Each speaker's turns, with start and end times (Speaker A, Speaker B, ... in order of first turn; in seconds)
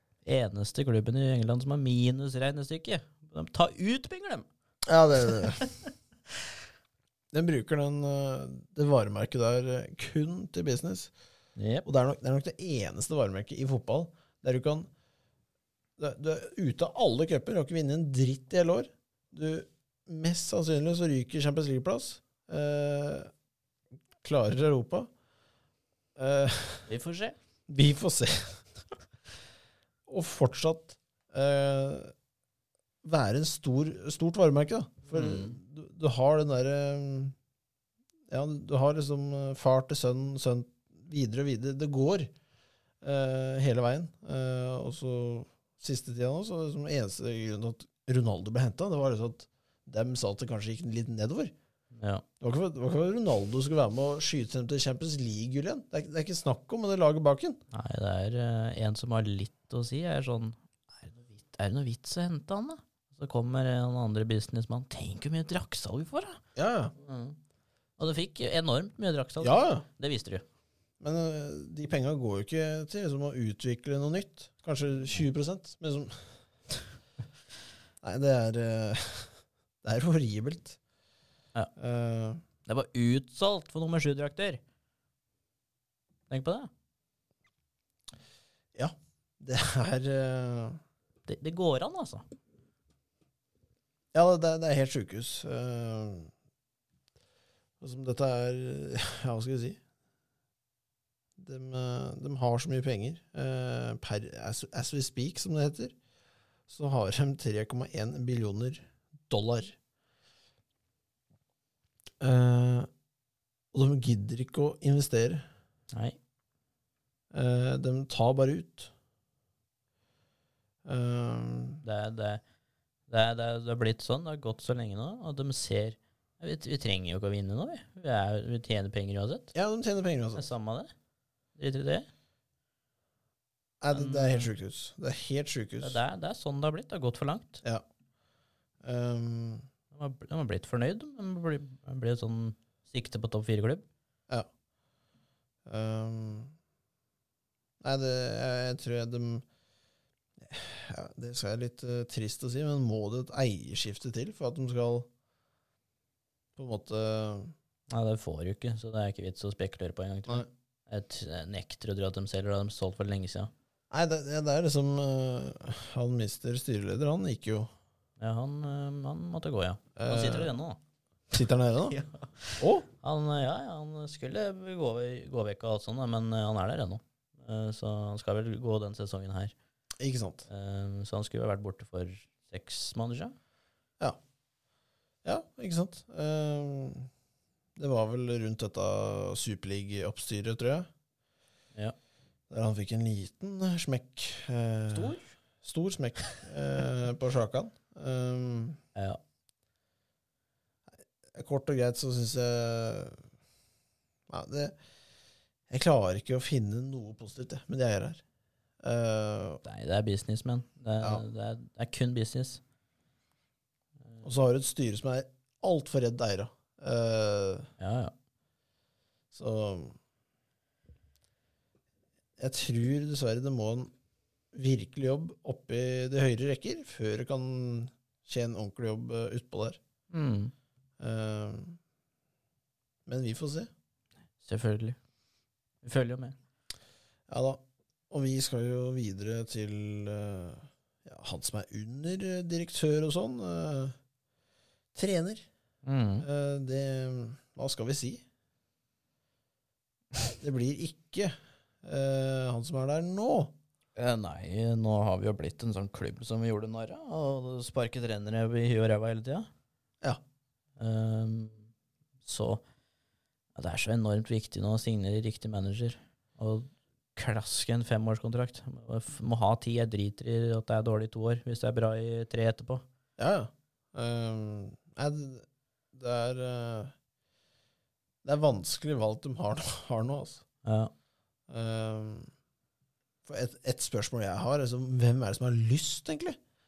Speaker A: 0.2-4.5, 5.5-5.8, 11.6-11.9, 26.9-27.4, 35.1-35.6, 52.0-52.2, 57.7-66.4, 67.0-67.4, 68.0-70.5, 82.7-84.6, 86.3-86.7, 91.3-92.3, 115.9-116.2, 121.8-122.4, 123.1-129.5, 130.3-130.9, 131.6-132.1, 133.9-134.5, 135.8-137.6, 139.9-143.8, 157.9-163.5, 168.2-170.8, 171.9-179.5, 180.5-183.4, 194.9-195.3, 198.9-199.2, 209.6-212.6, 217.8-218.1, 230.1-230.5, 234.4-235.0, 235.8-236.4, 245.8-246.3, 254.0-259.5, 260.8-261.7, 262.2-262.6, 263.6-272.8, 280.6-280.9
Speaker B: 4.9-5.7, 7.3-11.1, 11.8-14.9, 16.0-23.3, 24.2-25.1, 26.2-26.9, 27.7-28.6, 30.1-32.1, 33.0-37.4, 38.3-42.3, 43.0-51.5, 52.4-57.6, 66.6-66.9, 69.4-69.8, 71.0-76.2, 78.0-80.8, 81.8-82.4, 88.8-90.8, 94.1-96.3, 97.8-99.8, 101.4-105.9, 106.7-109.8, 112.2-112.9, 113.7-115.5, 117.3-118.9, 120.8-121.8, 129.5-130.4, 133.8-136.0, 138.8-139.7, 145.7-146.5, 147.8-149.4, 150.4-155.1, 156.6-157.5, 163.9-167.7, 170.0-170.5, 171.3-172.0, 172.6-172.9, 180.0-180.5, 185.2-187.1, 187.8-190.9, 192.5-198.8, 201.3-203.2, 204.3-204.7, 205.7-208.2, 208.8-209.6, 214.2-217.7, 219.3-220.0, 222.4-223.9, 224.5-229.8, 231.0-231.8, 233.1-233.7, 237.3-244.0, 244.9-245.5, 246.2-248.2, 250.4-253.5, 273.2-276.9, 278.2-280.4, 281.5-282.3, 283.3-286.4